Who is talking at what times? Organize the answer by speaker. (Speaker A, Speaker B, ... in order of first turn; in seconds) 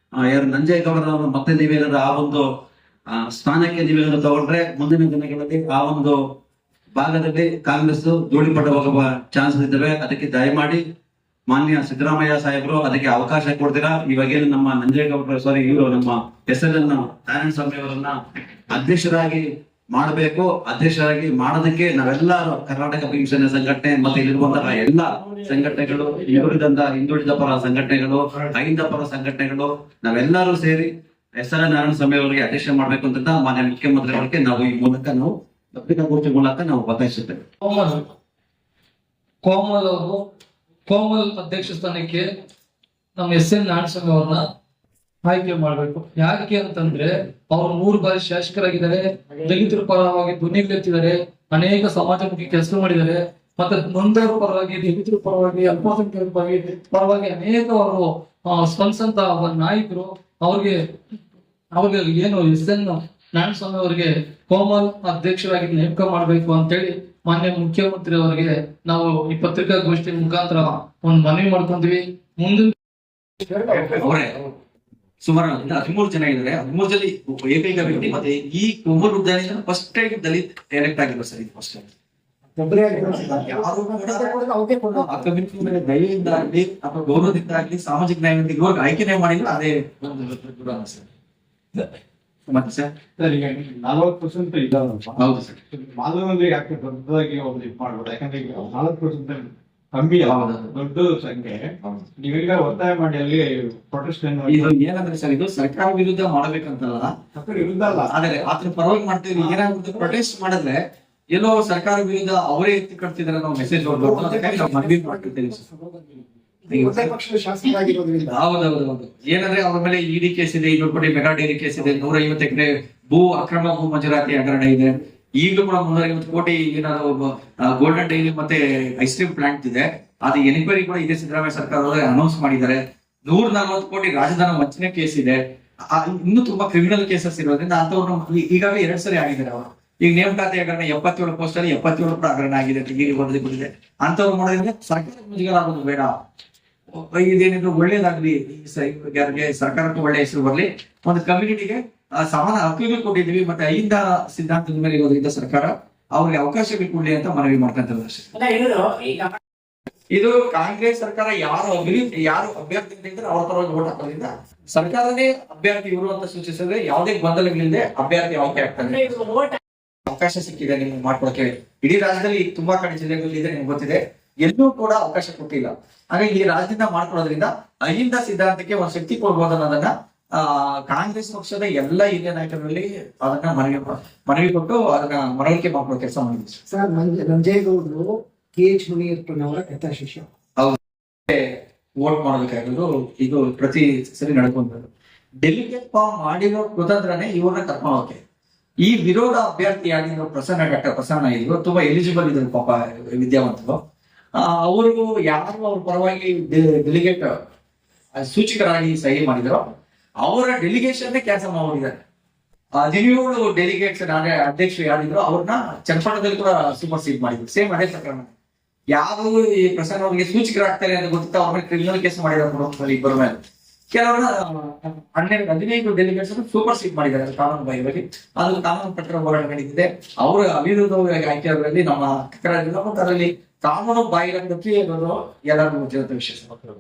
Speaker A: 0.2-2.5, 3.1-6.2, 7.0-10.8, 11.5-18.1, 18.7-37.4
Speaker B: 37.6-38.0, 39.4-40.2, 40.9-42.3, 43.2-44.4, 45.2-60.8, 61.7-72.7
Speaker C: 73.4-74.0, 82.6-85.1, 114.0-115.1, 115.8-116.0, 116.7-118.3, 186.7-190.3
Speaker D: 73.8-74.4, 75.3-81.9, 83.1-91.0, 92.5-92.9, 95.2-95.6, 100.2-100.7, 104.5-107.1, 108.1-110.8, 111.3-115.7, 116.7-117.2, 118.2-146.1, 146.9-158.5, 160.1-169.4, 170.1-186.6, 190.6-191.5, 192.0-194.9, 195.4-198.2, 198.8-203.8, 204.4-207.3, 208.2-209.7, 210.2-212.0, 212.8-218.3, 218.9-223.4, 223.9-236.6
Speaker E: 93.2-104.7, 107.3-108.1